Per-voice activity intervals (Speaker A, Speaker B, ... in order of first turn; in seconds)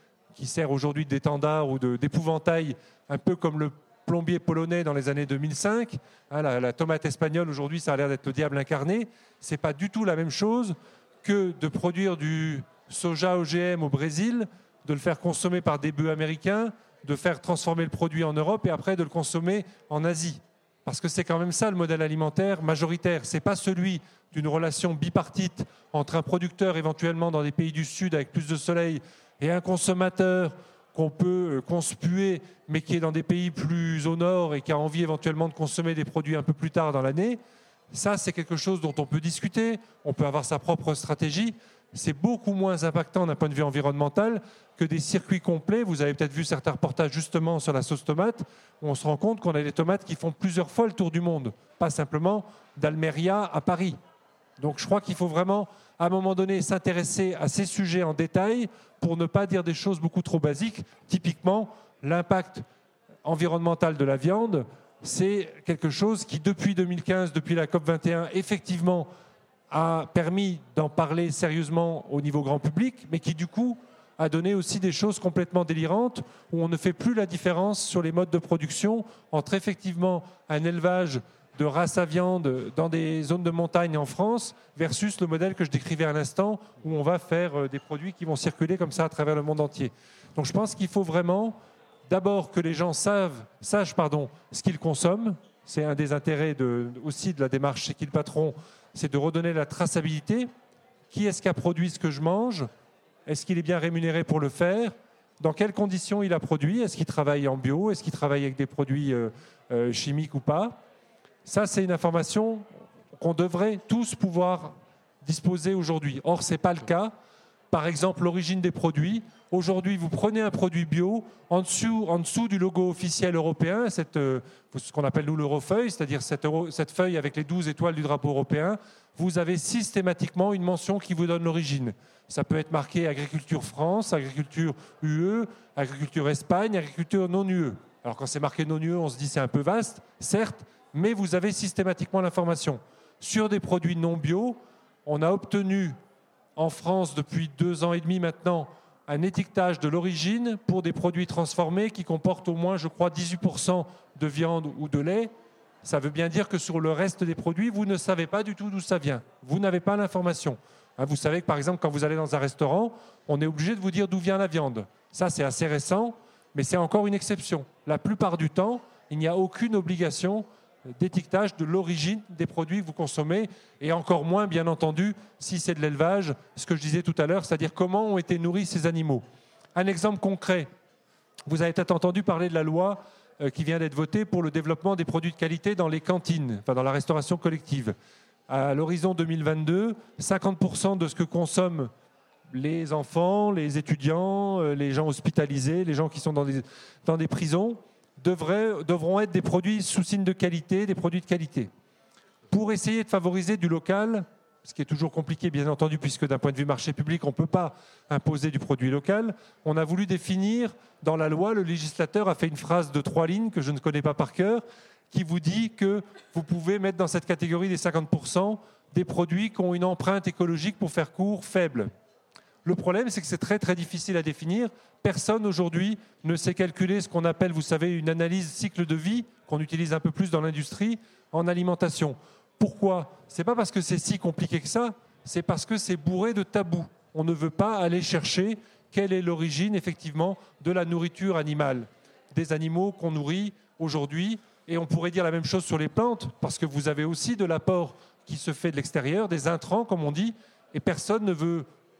Speaker A: 0.3-37.4, 37.9-54.0, 54.6-62.6, 63.2-69.1, 69.7-100.5, 101.1-102.7, 103.2-110.8, 111.4-117.1, 117.7-146.0, 146.6-155.3, 155.8-180.7, 181.5-187.9, 188.5-191.9, 192.5-201.7, 202.5-221.9, 222.6-251.7